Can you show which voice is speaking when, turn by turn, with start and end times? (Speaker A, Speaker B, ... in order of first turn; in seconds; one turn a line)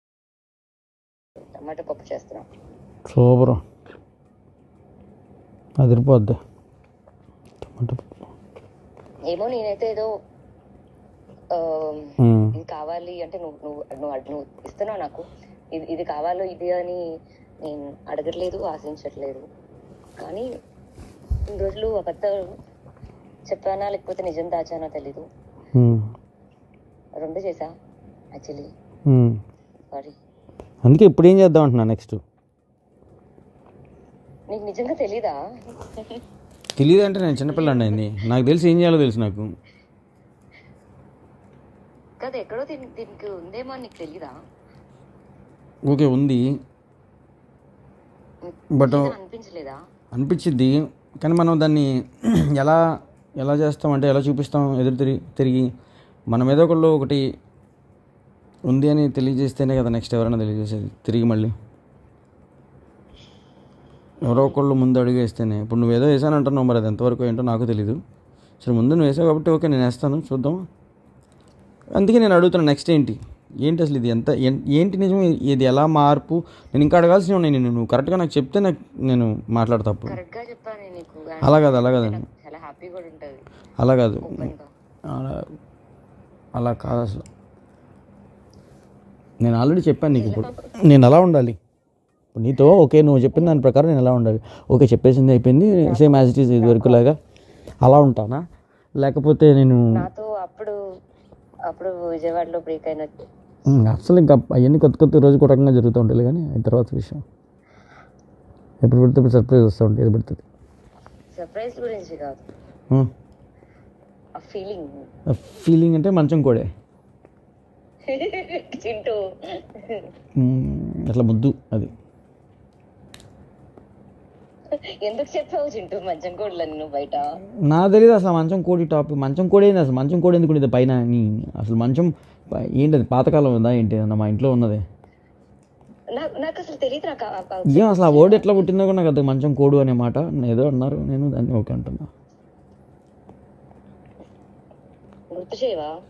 Speaker A: 1.5-2.5
Speaker B: 3.1-3.6
Speaker B: 5.8-6.4
Speaker B: 7.7-8.0
Speaker A: 9.3-10.1
Speaker A: 11.5-17.0
Speaker B: 12.2-12.5
Speaker A: 17.6-19.4
Speaker A: 20.2-20.5
Speaker A: 21.5-22.5
Speaker A: 23.5-25.2
Speaker B: 25.8-26.1
Speaker A: 27.2-27.7
Speaker A: 28.4-28.7
Speaker B: 29.1-29.4
Speaker B: 30.9-32.2
Speaker A: 34.5-36.2
Speaker B: 36.8-39.5
Speaker A: 37.5-38.1
Speaker A: 42.2-44.3
Speaker B: 45.9-46.4
Speaker A: 48.4-49.8
Speaker B: 48.7-49.1
Speaker B: 50.1-52.9
Speaker B: 53.4-55.7
Speaker B: 56.3-57.2
Speaker B: 58.7-61.5
Speaker B: 64.2-68.0
Speaker A: 64.3-64.5
Speaker B: 68.6-70.7
Speaker B: 72.0-80.2
Speaker A: 80.1-83.4
Speaker B: 81.4-82.2
Speaker B: 83.8-84.5
Speaker A: 84.2-84.7
Speaker B: 85.1-85.5
Speaker B: 86.6-87.2
Speaker B: 89.4-91.6
Speaker A: 90.1-90.7
Speaker B: 92.3-97.2
Speaker A: 95.8-97.1
Speaker B: 97.8-98.4
Speaker B: 99.0-99.9
Speaker A: 99.9-100.8
Speaker A: 101.7-103.1
Speaker B: 103.7-107.2
Speaker B: 108.8-110.4
Speaker A: 111.3-112.5
Speaker A: 114.4-114.9
Speaker B: 115.3-116.7
Speaker A: 118.1-120.1
Speaker B: 120.4-121.9
Speaker A: 124.7-127.4
Speaker B: 127.7-134.8
Speaker A: 136.2-138.7
Speaker B: 137.7-142.1
Speaker A: 145.3-145.9